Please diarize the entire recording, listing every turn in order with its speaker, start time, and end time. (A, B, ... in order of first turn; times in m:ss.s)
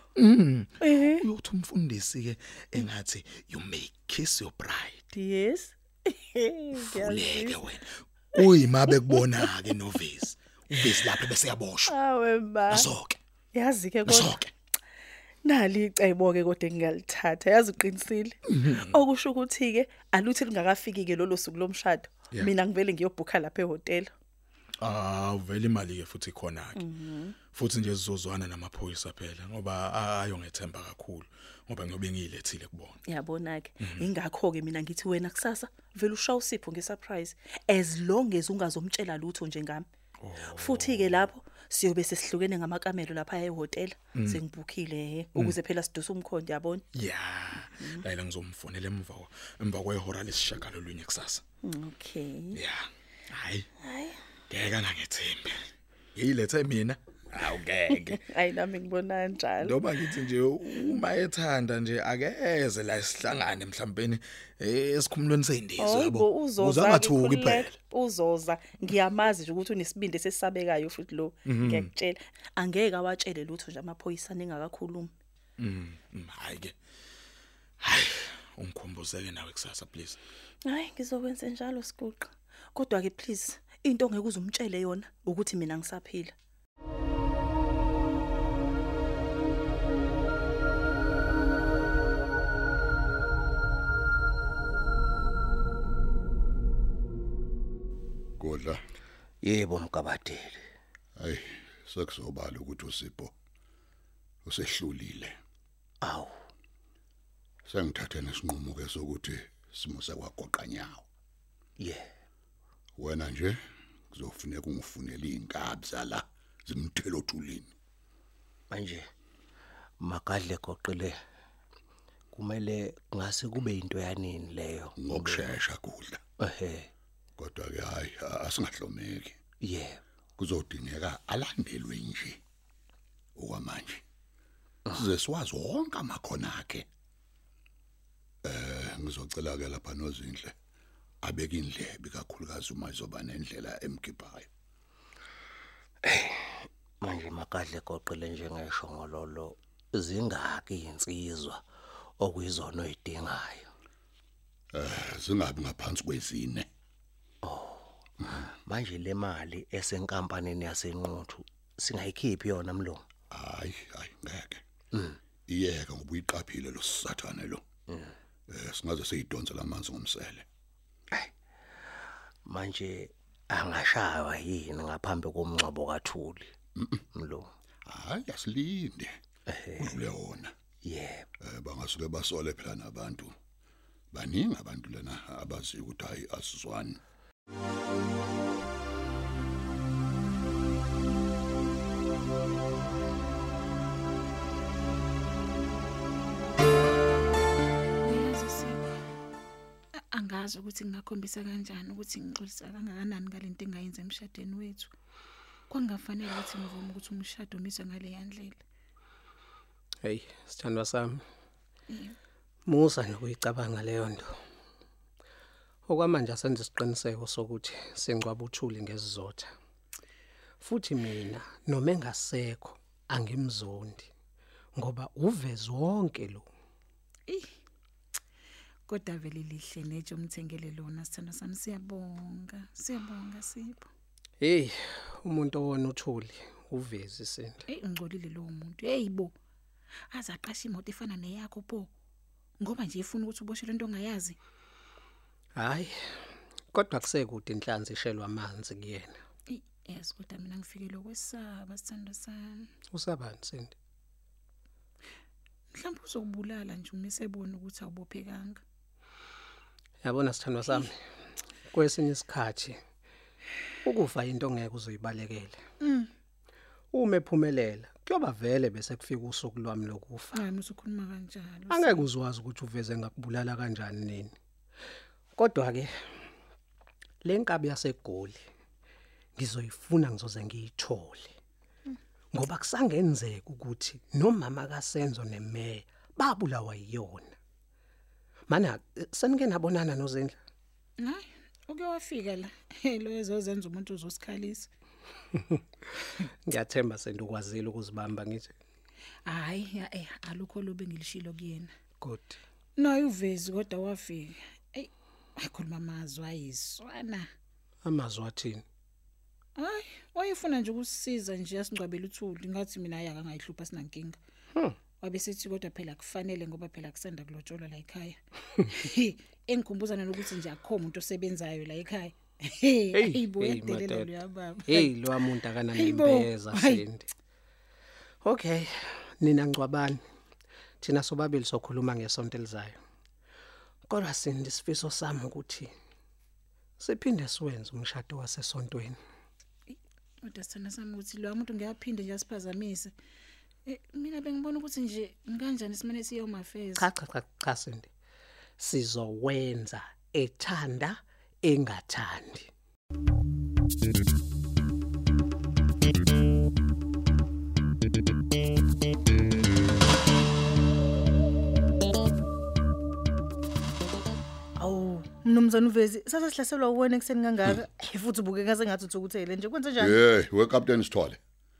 0:00.2-0:05.1 A
0:00.8-0:01.2 B
0:05.1-0:07.6 B
0:06.7-0:11.9 A
0:08.6-0:09.4 B
0:11.9-0:12.9 B
0:12.7-0:13.2 A
0:13.5-0:14.5 B
0:14.1-0:14.5 A
0:15.4-0:24.1 B
0:18.5-0:19.0 A
0:24.8-0:26.9 A
0:26.8-0:27.4 B
0:27.5-0:33.0 A
0:33.1-0:39.9 B
0:33.8-0:34.0 A
0:40.2-0:41.3 A
0:40.5-0:46.8 B
0:44.2-0:44.4 A
0:46.9-0:51.4 A
0:51.6-0:52.6 B
0:52.5-0:53.7 A
0:53.8-0:54.2 B
0:54.5-0:55.6 A
0:56.2-0:58.2 A
0:57.9-0:59.8 B
0:59.6-1:07.8 A
1:05.8-1:15.1 B
1:11.5-1:11.9 A
1:15.6-1:16.8 A
1:17.8-1:20.2 A
1:20.6-1:26.3 B
1:38.4-1:38.8 C
1:39.4-1:40.6 D
1:41.2-1:43.3 C
1:44.5-1:45.4 C
1:46.0-1:46.3 D
1:47.7-1:51.0 C
1:51.8-1:52.1 D
1:53.0-1:53.6 C
1:54.1-1:57.7 C
1:58.7-1:59.1 D
2:00.0-2:01.2 D
2:02.3-2:05.5 D
2:05.0-2:06.2 C
2:06.4-2:06.9 D
2:07.4-2:09.4 C
2:09.6-2:10.0 D
2:10.4-2:12.4 C
2:13.4-2:14.0 C
2:14.9-2:16.9 C
2:18.4-2:20.5 C
2:21.2-2:24.5 C
2:26.1-2:31.6 D
2:32.2-2:33.7 D
2:34.7-2:36.7 C
2:37.4-2:43.0 D
2:43.3-2:44.6 C
2:45.5-2:47.6 C
2:48.5-2:50.4 C
2:52.4-2:56.5 D
2:56.8-2:57.0 C
2:57.0-2:57.5 D
2:57.9-2:59.2 C
2:59.5-3:00.0 D
2:59.8-3:00.5 C
3:00.8-3:01.3 D
3:01.4-3:03.3 C
3:04.1-3:07.0 C
3:18.0-3:18.8 E
3:20.1-3:24.9 E
3:25.7-3:28.6 E
3:30.0-3:31.2 F
3:32.7-3:34.4 F
3:35.9-3:39.5 F
3:40.6-3:44.1 F
3:44.8-3:46.5 F
3:48.9-3:53.9 E
3:54.4-3:57.6 F
3:57.7-3:59.3 E
4:00.1-4:01.9 E
4:02.6-4:04.4 E
4:05.6-4:05.9 F
4:06.7-4:09.2 F
4:09.5-4:12.7 E
4:12.9-4:13.7 F
4:15.7-4:18.6 E
4:20.0-4:21.0 F
4:21.7-4:22.8 F
4:23.8-4:25.6 F
4:26.9-4:30.4 F
4:30.4-4:32.0 E
4:31.7-4:34.3 F
4:35.4-4:35.9 F
4:37.2-4:38.4 F
4:39.4-4:41.3 F
4:42.3-4:47.3 F
4:48.5-4:50.4 F
4:51.0-4:54.7 E
4:56.4-4:58.5 F
4:59.3-5:01.7 E
5:02.0-5:02.4 F
5:02.8-5:07.3 E
5:07.8-5:08.6 F
5:09.6-5:14.2 E
5:15.0-5:24.9 E
5:22.9-5:24.1 F
5:24.7-5:27.1 F
5:25.7-5:26.8 E
5:28.2-5:30.0 F
5:30.8-5:32.8 F
5:33.9-5:35.7 F
5:36.8-5:39.0 F
5:40.2-5:42.9 E
5:43.7-5:46.9 E
5:46.8-5:47.9 F
5:48.6-5:52.5 F
6:04.6-6:10.0 G
6:09.8-6:11.2 C